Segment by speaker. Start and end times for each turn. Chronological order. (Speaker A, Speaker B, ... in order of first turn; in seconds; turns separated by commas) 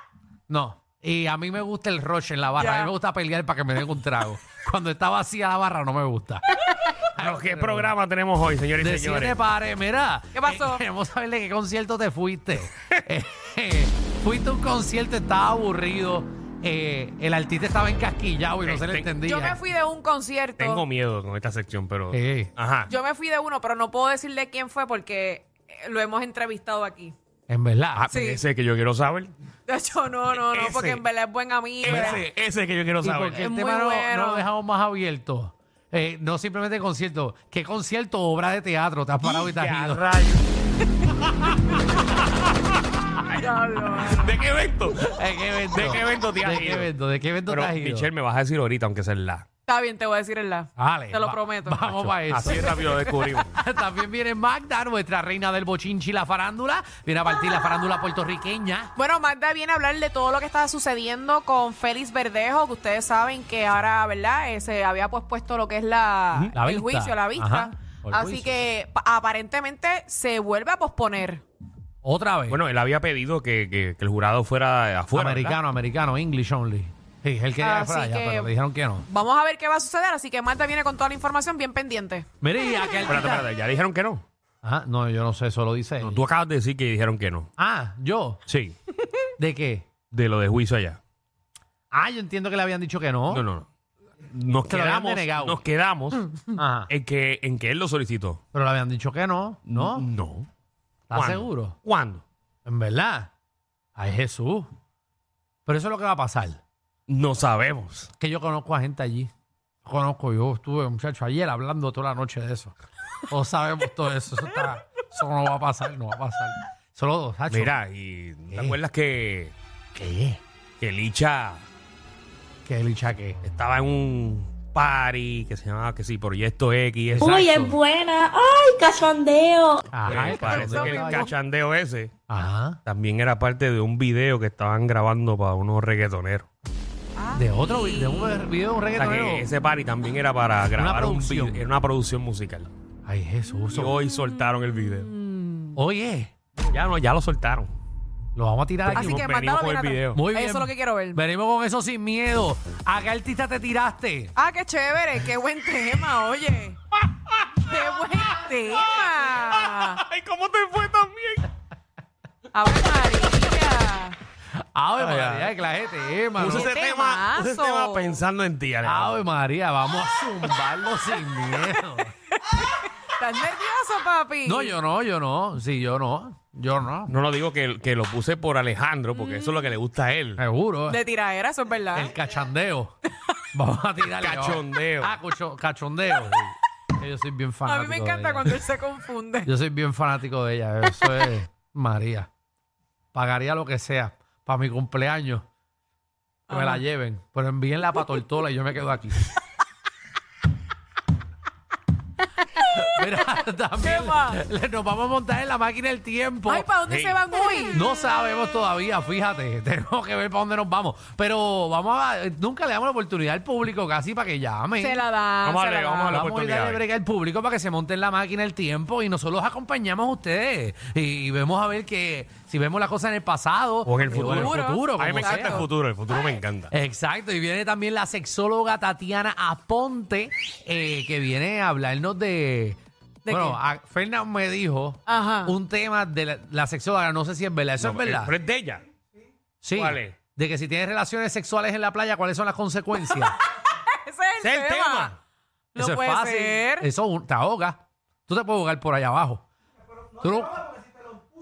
Speaker A: 0.5-6.4, Speaker B: 2.6-2.9, Speaker A: 7.1-8.0, Speaker C: 7.2-9.4, Speaker A: 8.8-19.6, Speaker B: 10.3-10.8, Speaker C: 18.6-19.1, Speaker B: 19.2-20.8, Speaker C: 20.6-22.9, Speaker A: 22.1-22.5, Speaker B: 22.9-27.1, Speaker A: 27.5-28.1, Speaker C: 27.9-29.3, Speaker B: 28.1-28.4, Speaker B: 29.7-32.2, Speaker C: 30.3-31.0, Speaker C: 31.8-33.4, Speaker A: 31.9-32.2, Speaker A: 33.0-40.0, Speaker B: 33.4-34.5, Speaker C: 39.2-40.5, Speaker B: 43.2-44.3, Speaker C: 44.0-45.1, Speaker A: 45.0-48.1, Speaker C: 45.7-46.9, Speaker C: 47.5-49.5, Speaker B: 49.7-53.2, Speaker A: 50.8-58.9, Speaker C: 52.1-53.5, Speaker B: 59.0-71.4, Speaker A: 66.5-68.6, Speaker A: 72.0-72.6, Speaker C: 72.5-75.6, Speaker A: 75.1-79.1, Speaker B: 77.6-78.5, Speaker B: 79.1-82.3, Speaker A: 82.4-83.5, Speaker C: 83.0-84.2, Speaker A: 84.6-86.2, Speaker C: 86.0-87.5, Speaker A: 87.6-88.5, Speaker C: 88.5-88.8, Speaker A: 89.4-90.0, Speaker C: 90.1-91.0, Speaker A: 91.9-93.5, Speaker C: 93.3-93.7, Speaker C: 94.3-96.3, Speaker A: 94.7-95.6, Speaker A: 96.6-96.9, Speaker C: 96.9-98.4, Speaker A: 98.5-100.1, Speaker C: 99.7-100.5, Speaker A: 101.1-101.8, Speaker C: 101.1-102.2, Speaker A: 102.7-103.3, Speaker A: 104.0-104.7, Speaker A: 105.7-106.6, Speaker C: 107.1-108.1, Speaker A: 108.2-109.3, Speaker A: 109.8-112.7, Speaker A: 113.3-117.8, Speaker C: 117.5-119.5, Speaker A: 118.5-118.8, Speaker A: 120.0-120.4, Speaker C: 120.8-121.7, Speaker A: 122.7-123.4, Speaker C: 123.4-127.4, Speaker A: 127.2-127.8, Speaker D: 127.2-129.8, Speaker A: 129.9-131.3, Speaker C: 130.1-132.1, Speaker B: 130.1-131.3, Speaker A: 132.3-132.8, Speaker C: 132.9-136.5, Speaker B: 137.2-138.5, Speaker A: 137.3-139.5, Speaker C: 139.0-142.7, Speaker A: 140.8-141.7, Speaker A: 143.1-144.0, Speaker C: 143.7-145.1, Speaker B: 144.2-145.8, Speaker A: 145.8-146.3, Speaker C: 146.6-147.7, Speaker A: 148.4-149.2, Speaker C: 148.8-150.2, Speaker B: 148.9-151.2, Speaker A: 150.1-154.3, Speaker B: 154.3-156.8, Speaker C: 157.1-158.0, Speaker B: 157.6-160.0, Speaker C: 159.2-161.5, Speaker B: 162.5-164.2, Speaker A: 164.6-166.7, Speaker C: 165.0-165.5, Speaker C: 166.4-169.2, Speaker B: 166.4-168.2, Speaker A: 168.8-172.2, Speaker B: 172.4-174.8, Speaker A: 174.4-177.1, Speaker C: 177.1-180.4, Speaker B: 179.1-179.7, Speaker A: 180.4-181.0, Speaker B: 180.9-182.2, Speaker A: 181.9-182.9, Speaker A: 183.5-188.6, Speaker C: 184.1-185.2, Speaker B: 187.7-189.5, Speaker A: 189.4-192.3, Speaker A: 193.1-195.4, Speaker B: 196.5-196.8, Speaker A: 196.5-199.3, Speaker B: 202.5-203.3, Speaker A: 202.7-206.7, Speaker B: 203.8-204.4, Speaker B: 206.5-207.8, Speaker C: 206.9-207.2, Speaker A: 207.7-215.1, Speaker B: 214.8-216.2, Speaker C: 215.4-216.8, Speaker A: 216.1-225.7, Speaker C: 223.8-226.7, Speaker B: 224.1-225.7, Speaker A: 226.7-238.3, Speaker B: 233.2-233.6, Speaker B: 235.1-235.6, Speaker C: 237.8-238.8, Speaker A: 239.6-243.4, Speaker C: 239.7-240.2, Speaker B: 243.0-245.1, Speaker C: 244.4-245.2, Speaker B: 245.8-246.9, Speaker A: 245.8-249.5, Speaker A: 250.2-250.8